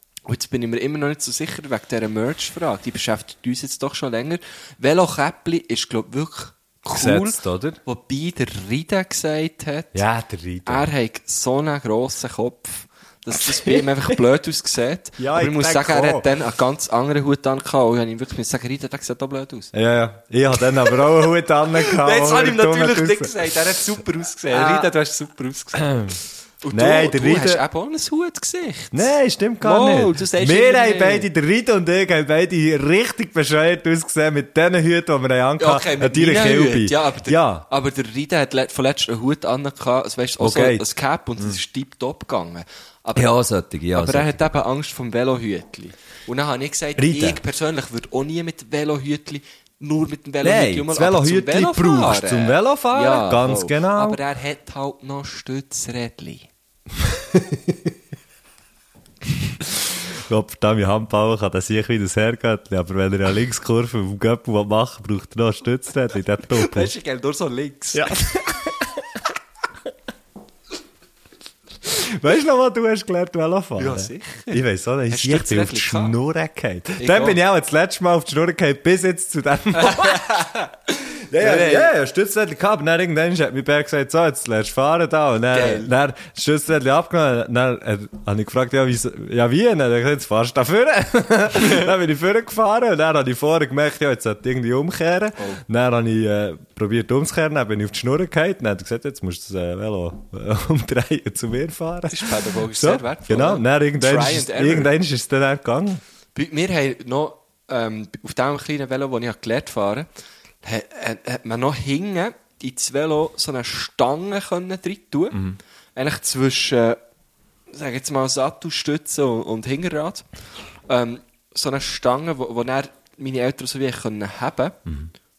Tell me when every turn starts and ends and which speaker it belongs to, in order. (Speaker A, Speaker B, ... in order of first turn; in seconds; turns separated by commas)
Speaker A: 0.2-10.0, Speaker B: 6.9-7.8, Speaker B: 9.9-10.9, Speaker A: 10.7-19.7, Speaker B: 13.5-13.9, Speaker B: 15.2-16.3, Speaker B: 19.7-23.4, Speaker A: 21.7-26.1, Speaker B: 24.5-24.9, Speaker B: 25.8-26.1, Speaker A: 26.6-31.3, Speaker B: 26.7-27.6, Speaker B: 28.9-37.6, Speaker A: 35.6-43.4, Speaker B: 40.4-40.9, Speaker B: 43.1-44.5, Speaker A: 43.9-56.5, Speaker B: 47.0-47.4, Speaker B: 50.4-54.2, Speaker B: 57.0-57.9, Speaker B: 59.6-66.9, Speaker A: 66.5-68.6, Speaker B: 67.9-69.0, Speaker B: 71.8-80.4, Speaker A: 73.8-76.2, Speaker A: 77.0-77.4, Speaker A: 79.7-81.9, Speaker B: 81.3-106.0, Speaker A: 85.5-85.9, Speaker A: 102.1-104.9, Speaker A: 106.3-110.1, Speaker A: 110.6-117.0, Speaker A: 117.7-120.2, Speaker A: 120.9-124.8